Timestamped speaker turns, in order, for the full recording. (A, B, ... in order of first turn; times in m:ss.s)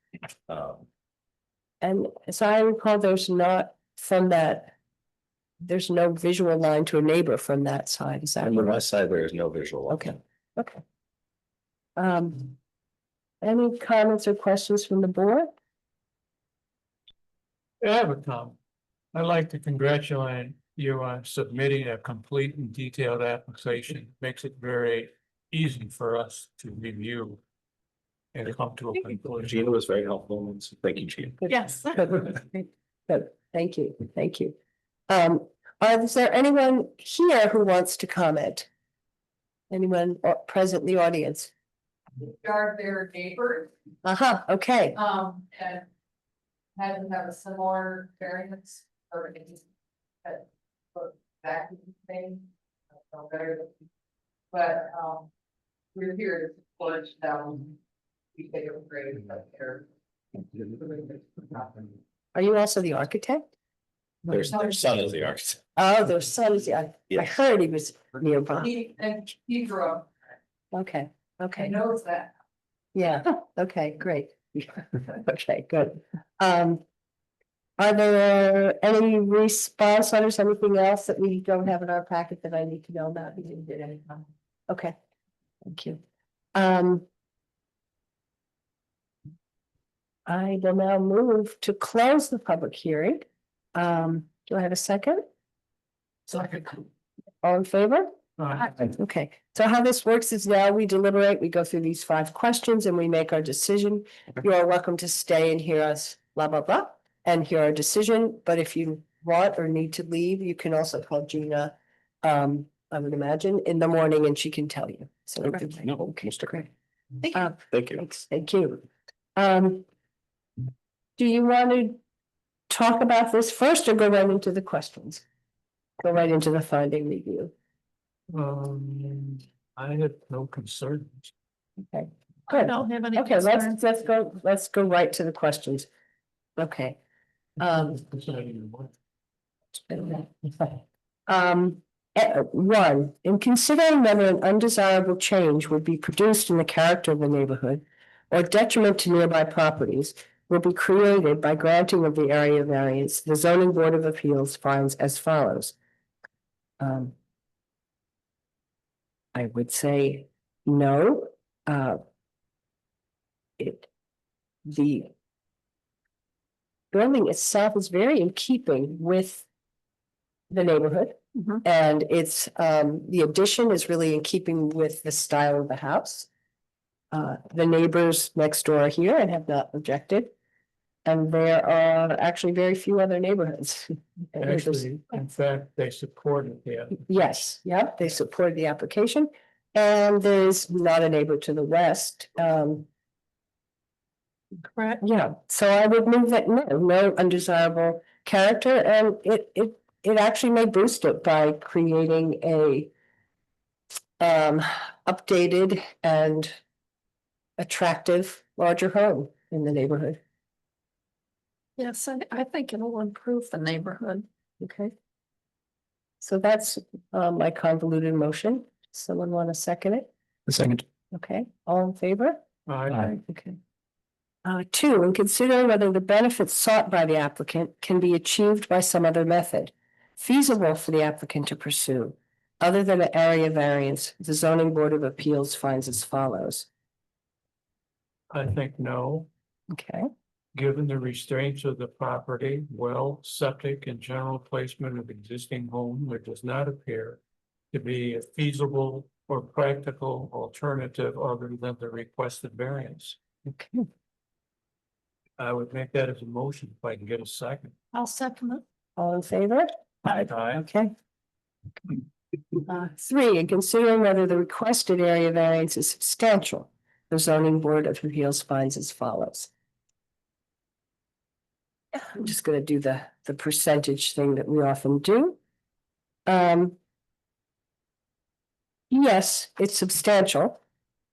0:00.5-0:00.8 A
0:01.8-0:04.7 B
0:05.6-0:08.8 B
0:08.4-0:10.2 A
0:09.9-0:10.8 B
0:12.0-0:12.5 B
0:13.4-0:15.5 B
0:17.8-0:18.6 C
0:19.1-0:27.4 C
0:28.3-0:29.6 C
0:29.4-0:31.4 A
0:31.5-0:34.5 B
0:31.5-0:32.0 D
0:35.1-0:38.7 B
0:39.7-0:41.5 B
0:42.2-0:43.7 E
0:44.0-0:45.0 B
0:44.9-0:45.8 E
0:46.8-0:49.6 E
0:50.2-0:53.7 E
0:54.5-0:55.3 E
0:55.9-0:57.8 E
0:58.3-1:02.0 E
1:02.3-1:03.4 B
1:04.3-1:05.6 A
1:05.8-1:08.7 B
1:08.6-1:10.1 E
1:10.7-1:11.8 B
1:11.6-1:12.3 E
1:12.9-1:16.8 B
1:17.8-1:24.9 B
1:25.6-1:26.0 B
1:26.5-1:27.0 B
1:30.2-1:35.2 B
1:37.4-1:56.7 B
1:38.4-1:38.7 C
1:55.5-1:56.6 A
1:57.3-1:58.8 B
1:57.7-1:58.0 A
1:59.4-1:59.8 B
2:01.2-2:02.0 B
2:02.7-2:05.2 B
2:06.0-2:07.5 B
2:08.3-2:11.3 C
2:11.9-2:15.9 B
2:12.5-2:13.7 D
2:16.6-2:17.0 B
2:17.6-2:18.0 B
2:18.0-2:18.9 C
2:19.9-2:35.7 B
2:36.8-2:37.1 B
2:39.3-2:42.0 B
2:43.6-2:43.9 B
2:44.6-2:45.1 B
2:46.9-2:49.4 B
2:50.5-2:56.3 B
2:57.1-3:00.3 B
3:01.0-3:04.8 B
3:04.4-3:07.0 C
3:07.0-3:12.9 B
3:14.7-3:15.0 D
3:15.0-3:22.9 B
3:24.2-3:26.5 B
3:27.6-3:30.2 B
3:31.8-3:34.2 D
3:34.6-3:34.9 B
3:36.2-3:40.1 B
3:41.1-3:42.4 B
3:42.7-3:43.1 C
3:42.9-3:43.6 B
3:44.4-3:56.7 B
3:58.3-3:59.3 C
3:59.7-4:00.1 B
4:00.5-4:07.2 C
4:07.7-4:13.2 C
4:13.4-4:13.8 B
4:15.4-4:17.7 C
4:17.9-4:18.6 D
4:19.0-4:19.7 B
4:20.0-4:20.6 C
4:20.5-4:20.9 B
4:22.7-4:29.5 B
4:31.9-4:35.4 B
4:36.2-4:36.8 B
4:38.9-4:40.6 B